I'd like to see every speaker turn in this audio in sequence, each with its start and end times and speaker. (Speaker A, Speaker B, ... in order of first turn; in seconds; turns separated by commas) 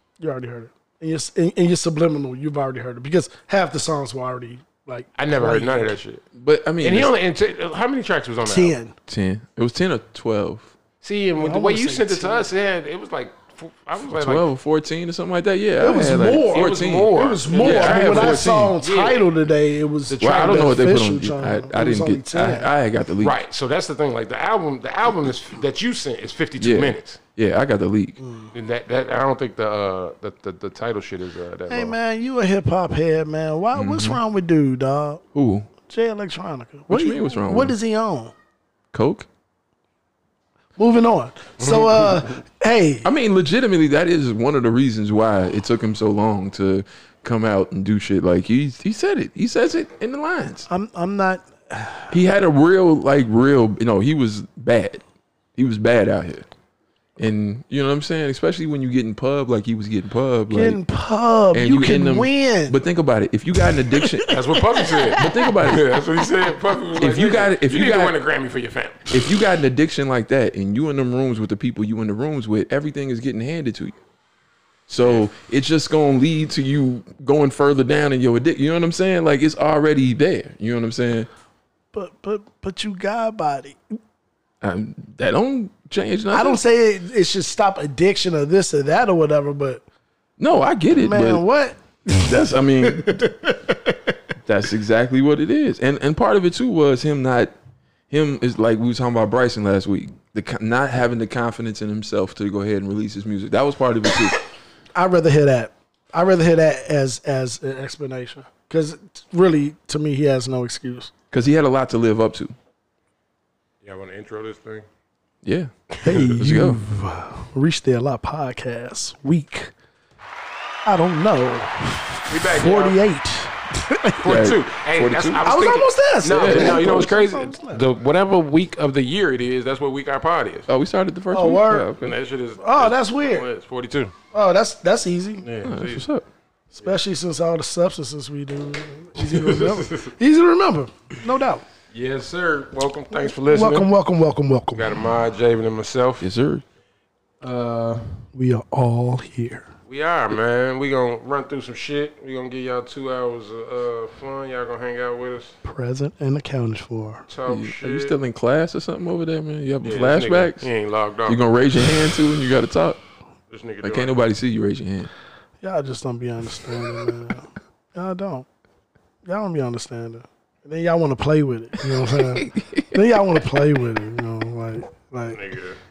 Speaker A: 0.2-6.0, Speaker B: 5.2-6.2, Speaker C: 6.3-7.1, Speaker B: 6.8-8.8, Speaker A: 8.5-8.9, Speaker C: 9.1-10.7, Speaker B: 11.0-14.5, Speaker A: 11.4-12.5, Speaker C: 14.2-18.8, Speaker A: 15.8-22.7, Speaker B: 16.5-19.3, Speaker B: 20.1-20.6, Speaker C: 20.2-23.4, Speaker B: 23.2-27.2, Speaker C: 26.6-28.2, Speaker A: 28.2-28.5, Speaker B: 28.5-32.0, Speaker A: 31.7-35.2, Speaker C: 33.7-34.2, Speaker C: 35.3-35.7, Speaker A: 35.9-38.3, Speaker C: 36.9-37.8, Speaker C: 38.9-39.3, Speaker A: 40.8-43.1, Speaker B: 41.6-42.1, Speaker C: 43.0-50.7, Speaker A: 50.7-52.1, Speaker C: 52.1-55.0, Speaker C: 55.6-56.5, Speaker C: 57.2-60.8, Speaker A: 60.5-62.8, Speaker C: 61.5-64.3, Speaker A: 64.1-65.3, Speaker B: 64.3-69.1, Speaker C: 65.2-65.9, Speaker C: 67.0-68.2, Speaker C: 69.1-74.0, Speaker C: 74.9-81.3, Speaker B: 75.0-75.3, Speaker A: 81.9-83.8, Speaker C: 84.6-86.6, Speaker A: 86.3-89.8, Speaker C: 90.4-91.5, Speaker A: 91.0-94.0, Speaker C: 92.2-93.3, Speaker C: 94.5-97.5, Speaker C: 98.1-104.4, Speaker A: 105.0-111.1, Speaker C: 111.3-112.5, Speaker B: 113.8-114.9, Speaker C: 115.4-116.8, Speaker A: 116.0-119.7, Speaker A: 120.8-124.3, Speaker B: 122.3-123.0, Speaker B: 124.2-130.7, Speaker C: 124.2-125.5, Speaker A: 125.4-127.9, Speaker C: 126.3-127.1, Speaker C: 130.7-132.2, Speaker A: 131.3-131.9, Speaker B: 132.0-134.1, Speaker A: 132.6-133.5, Speaker A: 134.3-135.4, Speaker B: 135.4-136.1, Speaker C: 135.6-136.3, Speaker A: 136.8-141.7, Speaker B: 139.2-140.1, Speaker B: 141.9-143.9, Speaker A: 143.1-145.0, Speaker B: 144.7-146.3, Speaker C: 146.2-146.6, Speaker B: 147.4-148.2, Speaker A: 148.3-149.7, Speaker B: 149.9-155.6, Speaker A: 155.6-157.2, Speaker B: 157.3-158.2, Speaker C: 157.4-160.7, Speaker B: 159.8-161.5, Speaker C: 161.3-163.0, Speaker B: 163.5-164.2, Speaker C: 163.8-165.1, Speaker A: 165.6-168.5, Speaker A: 169.2-175.4, Speaker C: 171.8-173.0, Speaker B: 175.3-175.8